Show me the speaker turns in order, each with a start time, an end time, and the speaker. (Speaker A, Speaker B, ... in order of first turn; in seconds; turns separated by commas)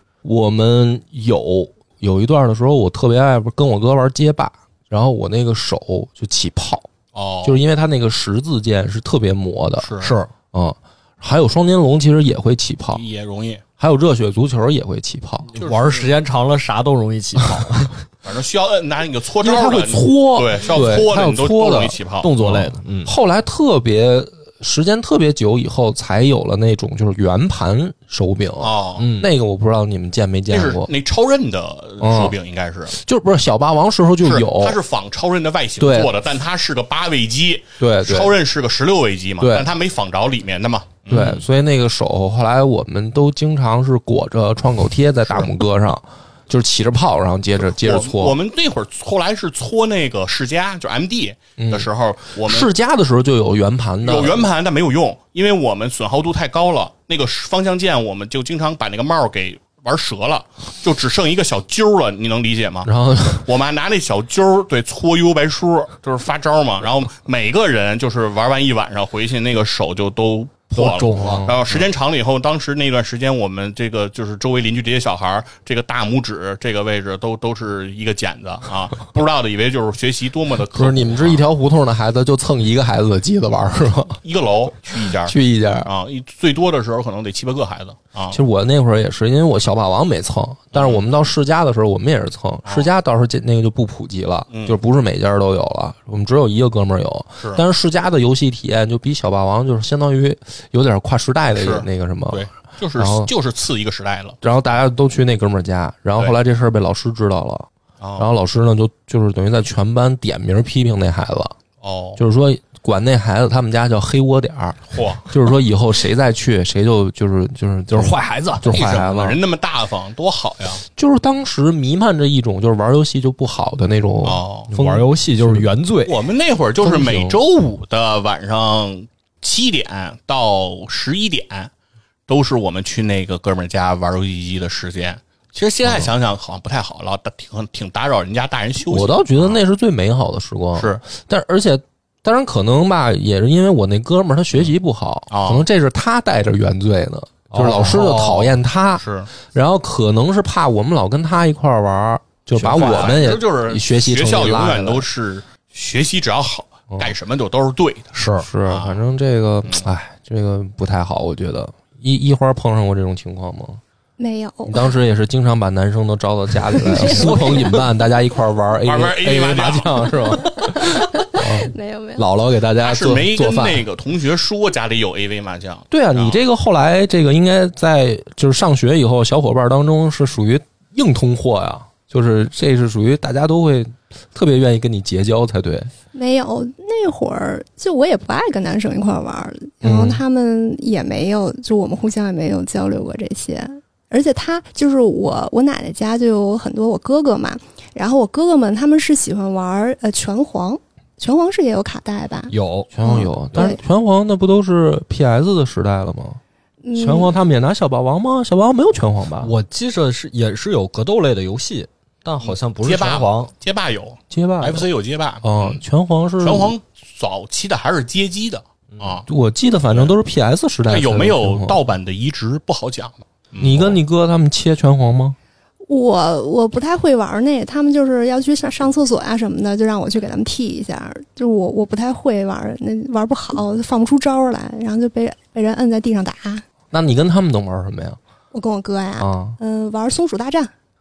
Speaker A: 0.2-6.9, Speaker B: 7.1-7.6, Speaker A: 7.4-9.9, Speaker B: 9.8-10.2, Speaker C: 10.0-10.3, Speaker A: 10.5-13.0, Speaker B: 12.9-13.6, Speaker A: 13.8-15.5, Speaker B: 15.5-16.1, Speaker C: 15.5-18.0, Speaker B: 18.2-22.3, Speaker A: 19.4-30.9, Speaker C: 19.5-20.0, Speaker C: 20.7-23.1, Speaker B: 28.6-29.1, Speaker C: 29.0-29.3, Speaker B: 30.5-33.0, Speaker A: 32.0-32.4, Speaker A: 32.9-34.8, Speaker B: 34.2-41.4, Speaker A: 35.8-36.1, Speaker A: 37.8-38.4, Speaker A: 39.4-39.7, Speaker A: 41.1-48.4, Speaker B: 47.8-52.7, Speaker A: 51.6-54.5, Speaker B: 54.0-62.9, Speaker A: 62.9-63.5, Speaker B: 63.5-81.4, Speaker C: 70.8-71.5, Speaker A: 71.1-71.8, Speaker A: 80.7-84.2, Speaker B: 84.2-88.4, Speaker A: 85.0-85.9, Speaker A: 88.3-103.3, Speaker B: 90.7-91.0, Speaker B: 94.5-94.8, Speaker B: 101.6-104.4, Speaker A: 104.4-111.5, Speaker B: 108.0-108.3, Speaker B: 111.8-112.2, Speaker A: 112.2-119.4, Speaker B: 114.9-115.2, Speaker C: 117.9-118.6, Speaker B: 118.7-120.8, Speaker A: 121.0-125.7, Speaker B: 124.2-124.7, Speaker C: 124.7-126.2, Speaker B: 126.0-131.7, Speaker A: 126.8-127.4, Speaker B: 132.3-139.6, Speaker A: 135.8-136.1, Speaker A: 138.9-155.1, Speaker B: 140.8-141.0, Speaker B: 145.3-145.7, Speaker C: 147.5-148.6, Speaker B: 149.0-149.3, Speaker B: 152.6-159.0, Speaker C: 152.6-153.2, Speaker C: 158.1-158.5, Speaker A: 158.4-163.8, Speaker D: 164.2-164.9, Speaker A: 164.7-173.8, Speaker D: 166.9-167.7, Speaker C: 167.1-167.5, Speaker B: 168.8-170.1, Speaker D: 170.8-172.2, Speaker B: 172.8-176.4, Speaker A: 175.9-185.9, Speaker D: 186.1-203.8, Speaker A: 189.8-190.2, Speaker C: 202.5-202.9, Speaker A: 202.9-206.4, Speaker D: 206.8-207.3, Speaker A: 207.0-209.5, Speaker C: 209.4-213.5, Speaker B: 212.4-215.8, Speaker A: 214.3-214.9, Speaker A: 215.4-216.8, Speaker B: 216.4-219.2, Speaker A: 219.3-221.8, Speaker B: 219.9-220.1, Speaker B: 220.9-224.0, Speaker A: 223.6-225.4, Speaker D: 225.9-236.6, Speaker A: 236.9-238.2, Speaker D: 238.5-240.7, Speaker A: 239.2-239.6